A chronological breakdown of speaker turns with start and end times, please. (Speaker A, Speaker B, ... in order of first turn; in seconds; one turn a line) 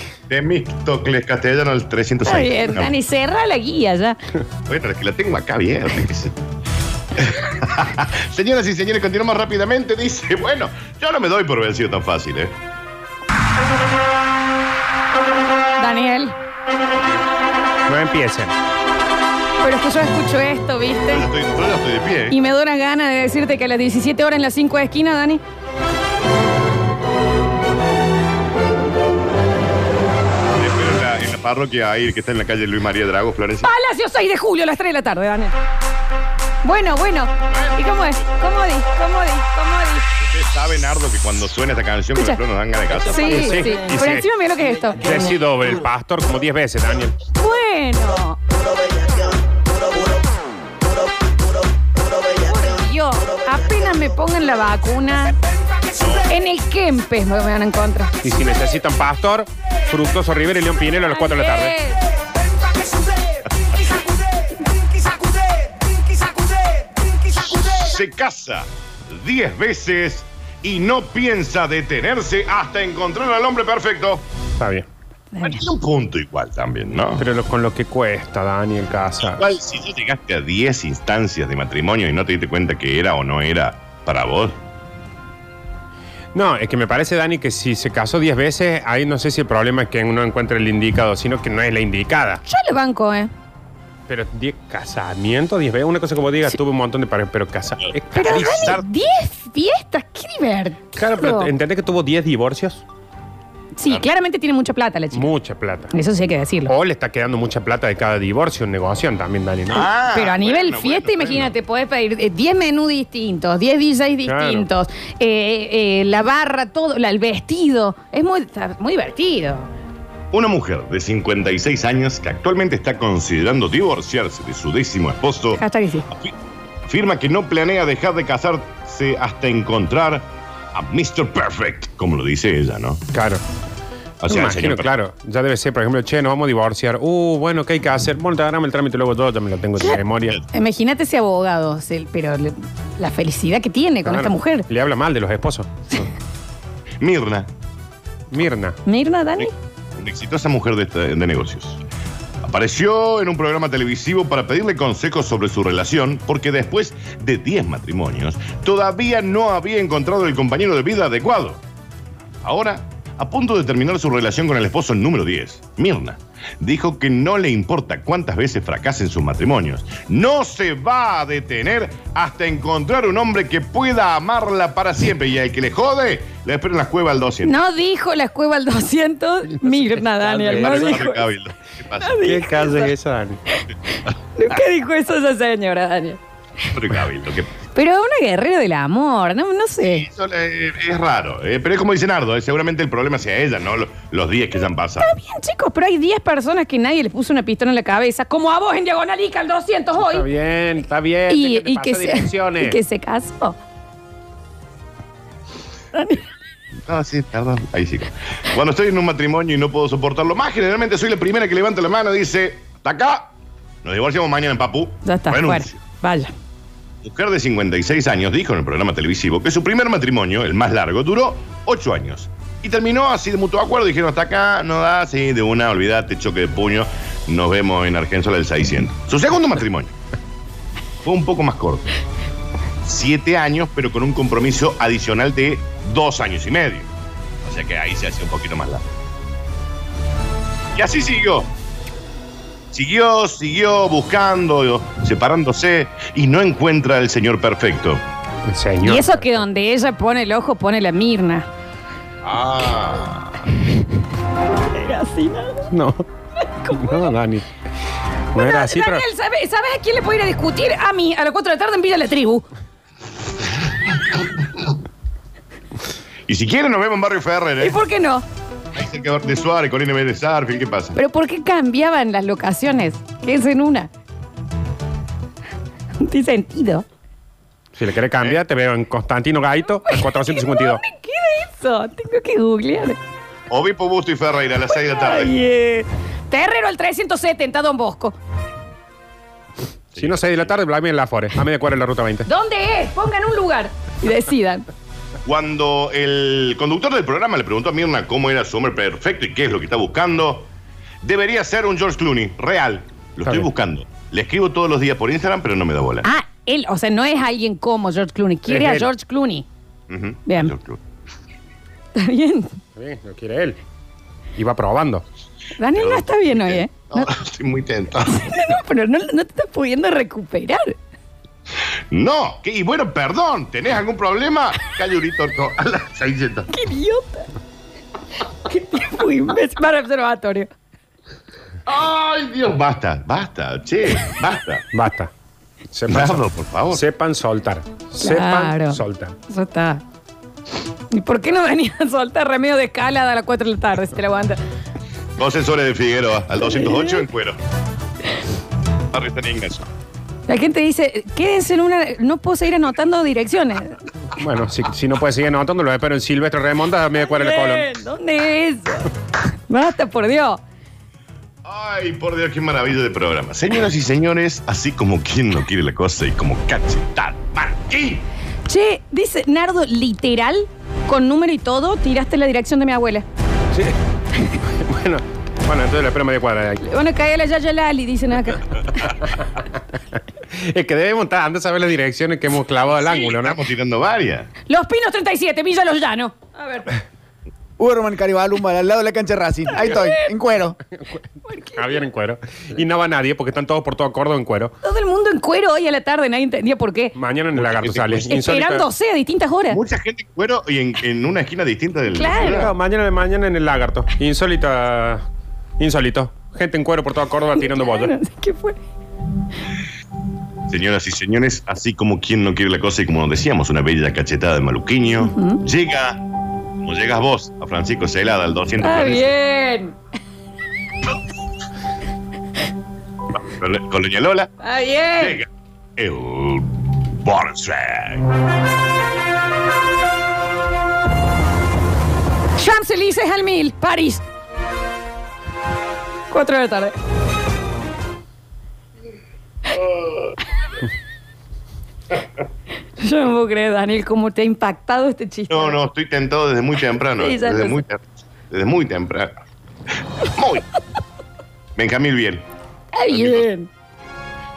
Speaker A: 0.3-2.9
Speaker B: 2.2-4.2
Speaker A: 4.7-6.4
Speaker A: 7.2-12.6
Speaker B: 15.8-16.4
Speaker C: 17.9-18.5
Speaker B: 19.6-21.3
Speaker A: 21.1-22.4
Speaker B: 22.3-25.4
Speaker A: 30.5-33.7
Speaker B: 33.6-35.5
Speaker B: 36.6-40.1
Speaker A: 37.5-38.4
Speaker A: 40.2-43.5
Speaker B: 43.0-45.3
Speaker C: 43.2-44.2
Speaker C: 45.0-47.1
Speaker B: 47.4-48.4
Speaker B: 52.3-55.4
Speaker B: 56.1-58.1
Speaker C: 58.2-61.7
Speaker B: 61.1-62.0
Speaker A: 67.5-74.2
Speaker C: 74.6-74.8
Speaker B: 75.3-75.6
Speaker A: 75.4-77.2
Speaker C: 77.2-79.5
Speaker A: 79.2-84.6
Speaker C: 86.3-92.4
Speaker B: 92.4-93.3
Speaker C: 94.1-98.8
Speaker A: 97.8-98.8
Speaker B: 98.1-101.5
Speaker C: 101.0-102.8
Speaker B: 103.8-105.3
Speaker C: 105.1-105.9
Speaker B: 105.9-106.7
Speaker C: 106.7-109.9
Speaker A: 109.7-111.5
Speaker B: 110.1-119.7
Speaker C: 114.2-114.7
Speaker A: 120.3-133.0
Speaker B: 125.5-126.1
Speaker C: 133.1-133.4
Speaker A: 134.2-134.9
Speaker C: 134.3-140.4
Speaker B: 139.8-144.7
Speaker C: 144.1-146.0
Speaker A: 147.0-147.5
Speaker C: 148.3-148.8
Speaker B: 148.8-149.5
Speaker A: 149.9-151.8
Speaker A: 152.4-161.6
Speaker A: 162.4-177.6
Speaker B: 177.4-181.2
Speaker C: 179.6-181.0
Speaker A: 180.5-182.3
Speaker B: 182.0-182.9
Speaker C: 182.2-183.4
Speaker B: 184.3-186.2
Speaker A: 186.7-187.5
Speaker B: 187.7-190.1
Speaker A: 189.8-195.1
Speaker B: 195.0-200.2
Speaker C: 200.0-202.8
Speaker B: 201.3-203.6
Speaker B: 205.9-206.2
Speaker A: 206.8-215.8
Speaker B: 215.0-216.3
Speaker A: 217.0-229.9
Speaker A: 231.0-231.9
Speaker A: 232.8-236.9
Speaker A: 237.4-238.8
Speaker A: 240.7-241.5
Speaker A: 242.7-248.0
Speaker C: 248.5-249.4
Speaker B: 248.8-251.5
Speaker A: 252.2-253.5
Speaker B: 254.7-255.7
Speaker C: 255.7-256.0
Speaker B: 256.4-257.1
Speaker C: 256.7-257.5
Speaker C: 258.3-259.0
Speaker B: 258.3-262.5
Speaker A: 264.1-264.6
Speaker A: 266.3-267.8
Speaker B: 267.6-268.2
Speaker A: 268.7-271.0
Speaker B: 270.9-273.9
Speaker B: 276.0-276.9
Speaker C: 277.8-280.8
Speaker B: 279.9-283.0
Speaker A: 283.5-285.3
Speaker B: 284.7-288.1
Speaker A: 289.9-290.5
Speaker C: 290.0-292.3
Speaker B: 292.2-294.6
Speaker A: 295.2-300.5
Speaker A: 301.0-306.1
Speaker B: 306.0-309.4
Speaker C: 308.5-308.9
Speaker A: 309.9-310.8
Speaker B: 310.3-310.5
Speaker B: 311.9-312.6
Speaker C: 312.8-313.6
Speaker C: 314.4-315.0
Speaker B: 315.6-317.0
Speaker A: 315.7-318.4
Speaker B: 318.1-320.8
Speaker A: 321.9-326.5
Speaker B: 326.5-327.3
Speaker B: 328.4-330.5
Speaker A: 331.6-334.7
Speaker C: 334.7-335.1
Speaker C: 335.7-339.2
Speaker A: 335.9-336.8
Speaker B: 338.0-339.8
Speaker B: 340.9-344.4
Speaker A: 345.2-347.4
Speaker B: 346.6-347.0
Speaker A: 348.9-349.7
Speaker B: 350.3-353.8
Speaker C: 354.1-357.7
Speaker B: 357.0-358.9
Speaker B: 359.5-360.4
Speaker A: 361.4-368.0
Speaker B: 368.5-373.1
Speaker C: 374.4-376.6
Speaker B: 376.6-378.9
Speaker C: 380.3-383.4
Speaker A: 382.8-384.3
Speaker B: 384.5-386.7
Speaker D: 387.6-390.6
Speaker B: 389.5-390.1
Speaker B: 391.3-391.8
Speaker C: 391.5-394.5
Speaker B: 394.6-396.9
Speaker C: 396.9-398.6
Speaker A: 397.3-398.1
Speaker B: 398.1-399.6
Speaker A: 399.5-402.5
Speaker B: 401.9-402.5
Speaker C: 402.2-405.0
Speaker C: 405.6-407.9
Speaker B: 407.4-408.6
Speaker A: 410.5-416.0
Speaker B: 415.0-415.4
Speaker A: 416.6-419.1
Speaker B: 418.6-419.8
Speaker A: 423.1-424.3
Speaker B: 424.4-425.2
Speaker A: 425.0-428.1
Speaker B: 432.4-434.1
Speaker B: 436.1-436.7
Speaker B: 442.8-445.6
Speaker A: 445.3-450.5
Speaker B: 447.0-447.6
Speaker A: 451.6-452.3
Speaker B: 452.7-453.5
Speaker A: 452.9-453.3